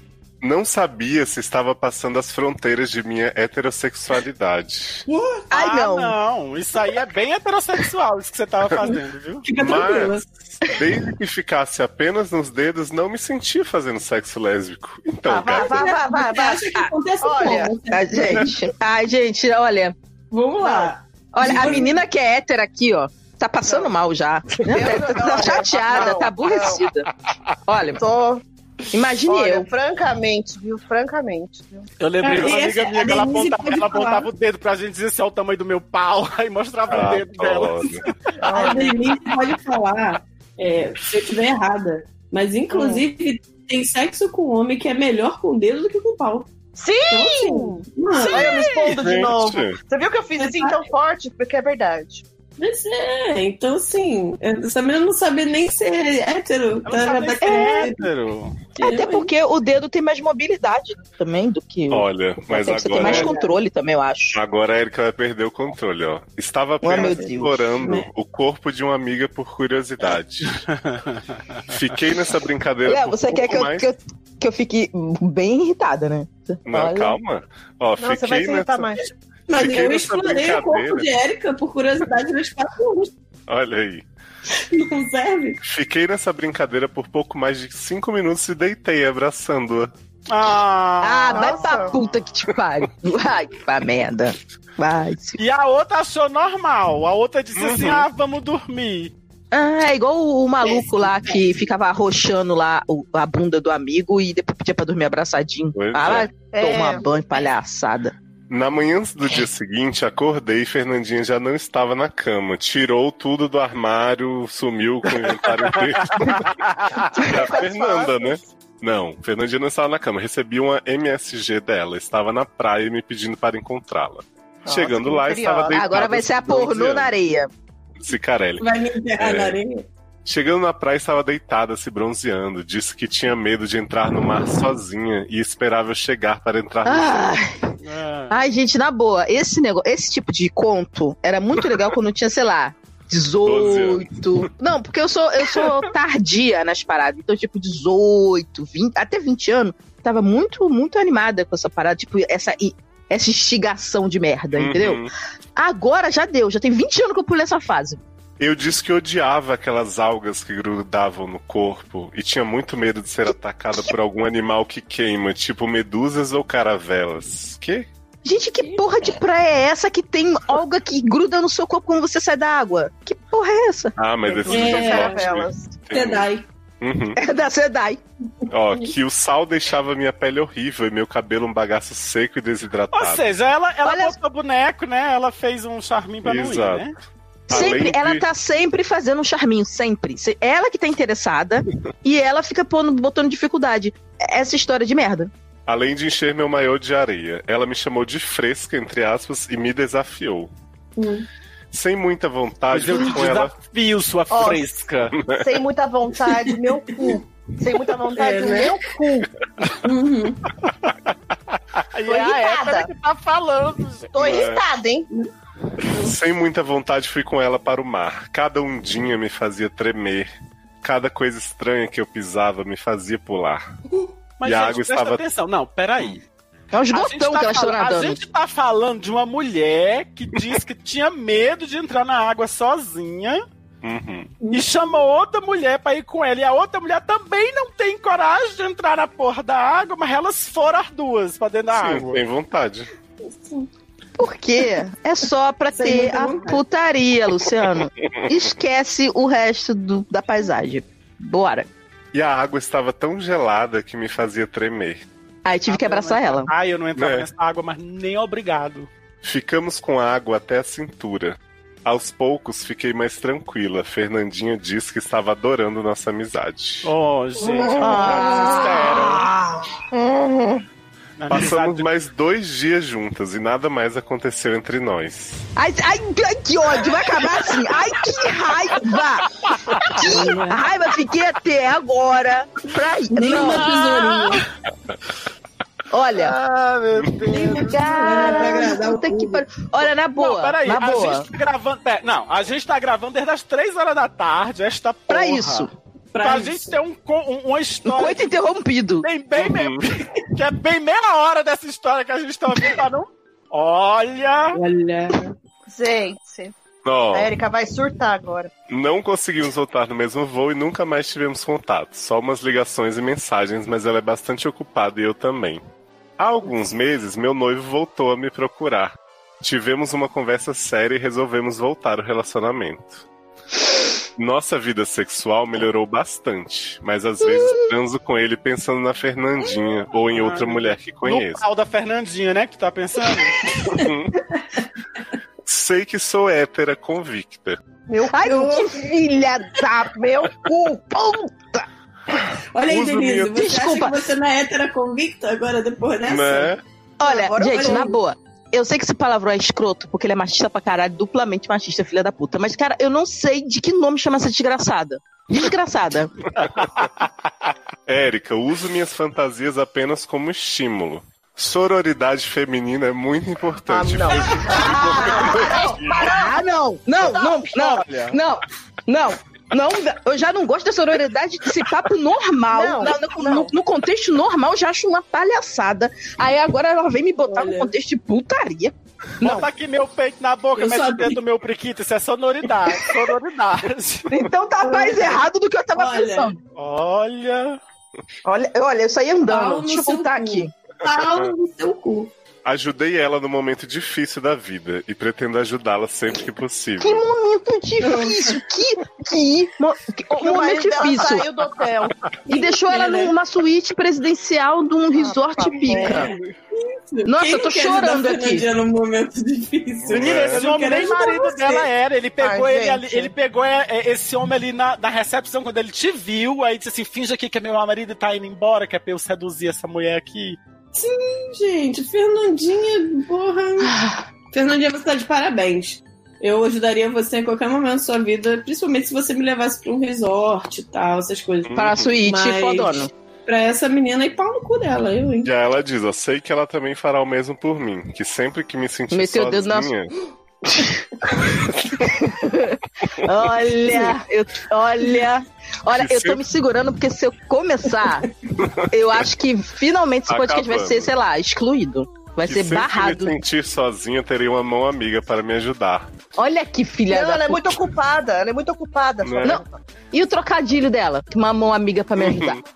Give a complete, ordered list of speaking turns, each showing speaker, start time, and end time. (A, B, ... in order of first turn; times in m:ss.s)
0:00.4-0:05.0 A
0:05.1-0:05.4 B
0:05.5-0:06.2 C
0:05.5-0:09.5 D
0:09.4-0:10.2 B
0:09.6-0:15.8 A
0:15.3-0:17.8 E
0:15.5-0:18.5 B
0:17.4-0:20.0 C
0:20.3-0:22.0 B
0:20.6-0:20.9 E
0:21.3-0:27.1 C
0:21.6-0:21.8 E
0:23.6-0:23.9 E
0:24.6-0:26.9 E
0:27.7-0:28.0 C
0:28.0-0:28.4 E
0:28.9-0:29.7 C
0:29.2-0:31.9 E
0:32.0-0:38.0 D
0:32.2-0:34.3 B
0:36.9-0:38.1 A
0:38.4-0:39.0 E
0:38.5-0:46.5 B
0:42.7-0:43.0 E
0:46.8-0:52.2 E
0:47.1-0:48.6 B
0:48.3-0:49.0 D
0:48.8-0:49.8 A
0:50.4-0:50.8 B
0:52.6-0:58.1 B
0:56.8-0:58.7 D
0:57.5-0:57.8 C
0:58.8-0:59.3 B
0:58.8-1:04.4 C
1:01.9-1:03.3 A
1:02.9-1:03.6 B
1:04.3-1:10.6 A
1:06.8-1:07.6 C
1:07.7-1:08.1 B
1:10.6-1:11.6 D
1:11.7-1:13.9 A
1:12.9-1:17.2 C
1:16.7-1:18.9 A
1:18.0-1:19.0 E
1:19.5-1:23.1 B
1:19.5-1:21.1 A
1:23.5-1:24.0 A
1:24.7-1:25.6 B
1:25.6-1:29.9 A
1:30.3-1:31.7 D
1:31.0-1:35.4 C
1:31.3-1:32.0 E
1:35.4-1:39.1 D
1:37.6-1:38.1 A
1:39.5-1:48.1 C
1:40.6-1:41.7 B
1:45.8-1:46.3 A
1:46.4-1:47.1 E
1:48.5-1:56.5 A
1:55.2-1:57.1 D
1:57.2-2:07.1 A
1:57.3-1:58.4 E
2:04.6-2:05.9 E
2:05.7-2:07.5 C
2:08.0-2:09.6 A
2:08.6-2:09.9 B
2:10.2-2:17.3 A
2:16.8-2:17.6 C
2:17.8-2:18.4 D
2:18.3-2:38.0 C
2:23.4-2:24.5 A
2:34.6-2:35.1 A
2:38.4-2:47.9 A
2:48.2-2:54.0 C
2:54.0-2:56.3 A
2:54.3-2:55.8 E
2:54.5-2:55.2 B
2:55.9-2:56.5 B
2:56.8-2:57.2 A
2:57.2-2:58.0 C
2:58.5-3:03.2 A
3:02.9-3:07.0 D
3:03.8-3:04.2 C
3:06.2-3:06.8 A
3:07.5-3:15.3 C
3:07.5-3:08.3 A
3:15.7-3:20.5 A
3:21.0-3:21.3 B
3:21.7-3:23.6 A
3:22.7-3:25.2 D
3:24.3-3:24.7 E
3:25.3-3:29.3 E
3:26.9-3:27.2 B
3:28.1-3:28.8 B
3:29.8-3:30.4 B
3:31.9-3:34.1 D
3:32.1-3:32.9 E
3:34.1-3:35.1 E
3:34.2-3:34.6 A
3:35.9-3:40.3 A
3:40.8-3:43.6 A
3:44.4-3:46.2 D
3:44.4-3:45.2 A
3:46.7-3:48.2 C
3:46.9-3:53.4 D
3:53.8-3:54.4 A
3:54.4-3:54.7 B
3:54.5-4:02.2 D
4:01.7-4:02.9 A
4:03.4-4:03.7 B
4:04.2-4:11.7 C
4:05.7-4:06.6 B
4:12.1-4:15.0 A
4:15.4-4:16.5 C
4:15.7-4:18.9 D
4:17.0-4:17.3 A
4:19.2-4:26.9 A
4:26.8-4:29.3 D
4:27.8-4:29.2 C
4:31.2-4:31.9 D
4:31.3-4:35.4 A
4:35.6-4:39.2 C
4:39.9-4:43.7 C
4:40.0-4:40.6 B
4:43.2-4:44.4 B
4:43.3-4:44.4 D
4:45.9-4:46.4 C
4:46.3-4:47.8 D
4:47.3-4:49.5 B
4:47.5-4:51.3 C
4:50.1-4:58.3 D
4:55.1-4:55.7 C
4:56.1-4:56.8 B
4:57.8-4:59.1 C
4:59.0-5:04.6 D
4:59.4-4:59.8 A
5:04.5-5:05.3 B
5:05.7-5:06.5 E
5:06.8-5:07.4 A
5:07.1-5:08.5 E
5:08.7-5:15.6 A
5:16.2-5:23.0 A
5:24.2-5:31.4 A
5:30.1-5:33.8 D
5:33.7-5:34.1 A
5:35.5-5:37.6 A
5:37.9-5:38.6 E
5:38.1-5:41.6 C
5:38.3-5:38.7 B
5:39.8-5:40.9 E
5:42.5-5:46.5 B
5:42.7-5:43.4 A
5:43.3-5:44.0 C
5:46.0-5:46.6 A
5:47.0-5:56.1 C
5:47.0-5:47.9 E
5:47.4-5:48.0 B
5:56.6-5:57.0 D
5:57.9-6:06.1 A
6:03.7-6:06.4 E
6:04.6-6:18.7 C
6:07.0-6:08.0 E
6:12.5-6:13.5 E
6:17.2-6:17.7 B
6:19.2-6:24.1 D
6:20.6-6:21.2 B
6:24.1-6:26.4 C
6:24.6-6:26.4 B
6:26.6-6:27.6 D
6:28.3-6:30.5 C
6:29.2-6:32.1 B
6:31.0-6:31.3 A
6:32.4-6:37.0 A
6:36.8-6:41.3 C
6:37.8-6:38.4 B
6:40.2-6:41.9 E
6:42.3-6:46.1 C
6:42.3-6:43.2 B
6:44.9-6:46.1 E
6:45.7-6:51.7 B
6:47.1-6:48.5 C
6:49.8-6:50.4 A
6:49.9-7:00.4 D
6:52.2-6:53.1 E
7:00.7-7:03.7 B
7:03.6-7:04.0 C
7:04.3-7:15.3 B
7:11.4-7:12.0 A
7:11.6-7:12.9 C
7:15.2-7:19.9 A
7:18.9-7:19.7 C
7:21.2-7:21.9 A
7:21.9-7:28.1 C
7:25.7-7:26.2 A
7:28.4-7:28.7 A
7:28.7-7:33.2 C
7:30.1-7:30.9 A
7:32.2-7:35.9 A
7:36.2-7:37.6 C
7:36.9-7:39.6 E
7:39.0-7:39.4 A
7:39.2-7:42.4 C
7:42.0-7:42.4 A